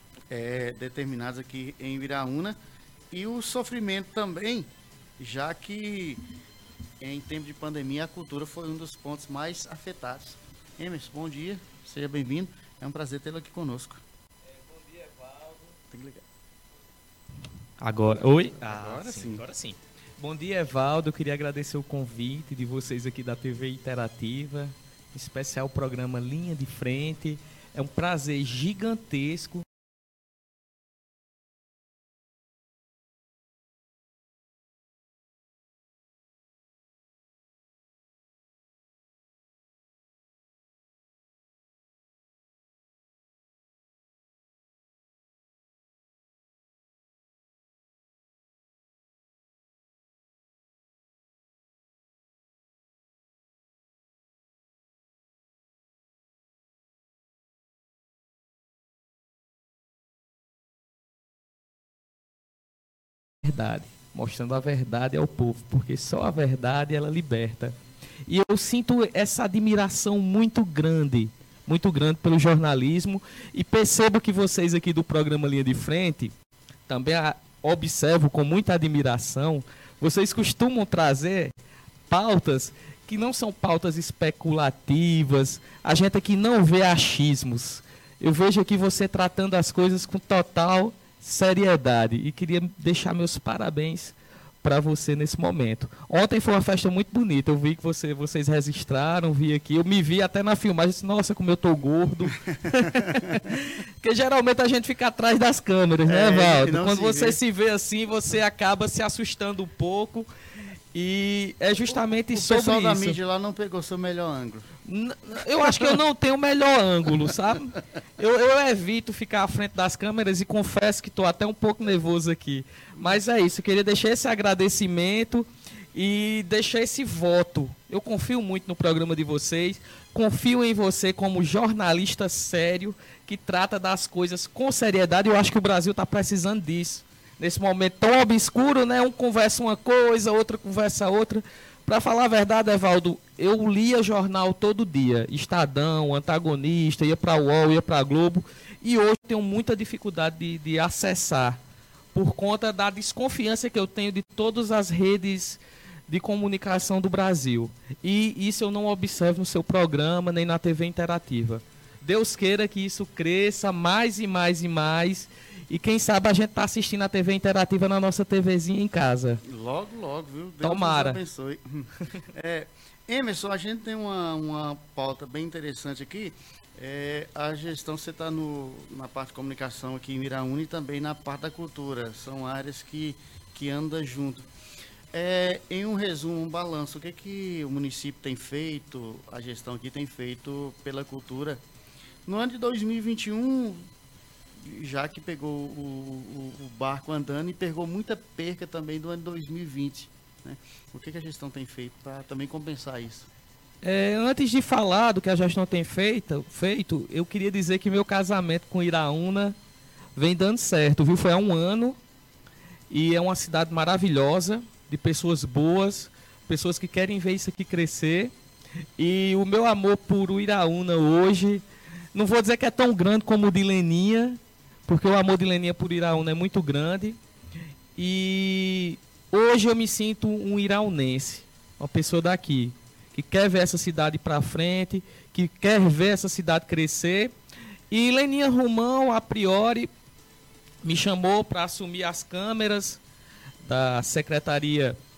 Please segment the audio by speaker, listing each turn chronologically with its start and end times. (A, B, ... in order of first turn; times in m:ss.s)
0:00.3-0:02.6 A
0:03.1-0:06.2 A
0:07.0-0:14.0 A
0:14.6-0:15.7 B
0:15.9-0:16.2 A
0:17.8-0:29.7 B
0:18.6-0:19.4 A
1:03.4-1:16.3 B
1:16.9-1:21.5 B
1:22.1-1:50.3 B
1:46.0-1:47.4 A
1:50.9-1:53.2 B
1:52.3-1:54.7 A
1:54.8-2:31.6 B
2:32.1-2:49.4 B
2:49.4-3:04.5 A
2:50.6-2:51.2 B
3:05.1-3:11.6 A
3:12.2-3:13.9 A
3:14.6-3:23.3 A
3:23.8-3:29.6 B
3:30.1-3:32.0 B
3:32.9-3:38.3 B
3:39.0-3:47.2 B
3:48.0-3:57.3 B
3:57.9-3:59.9 B
4:00.8-4:03.0 B
4:03.6-4:05.0 B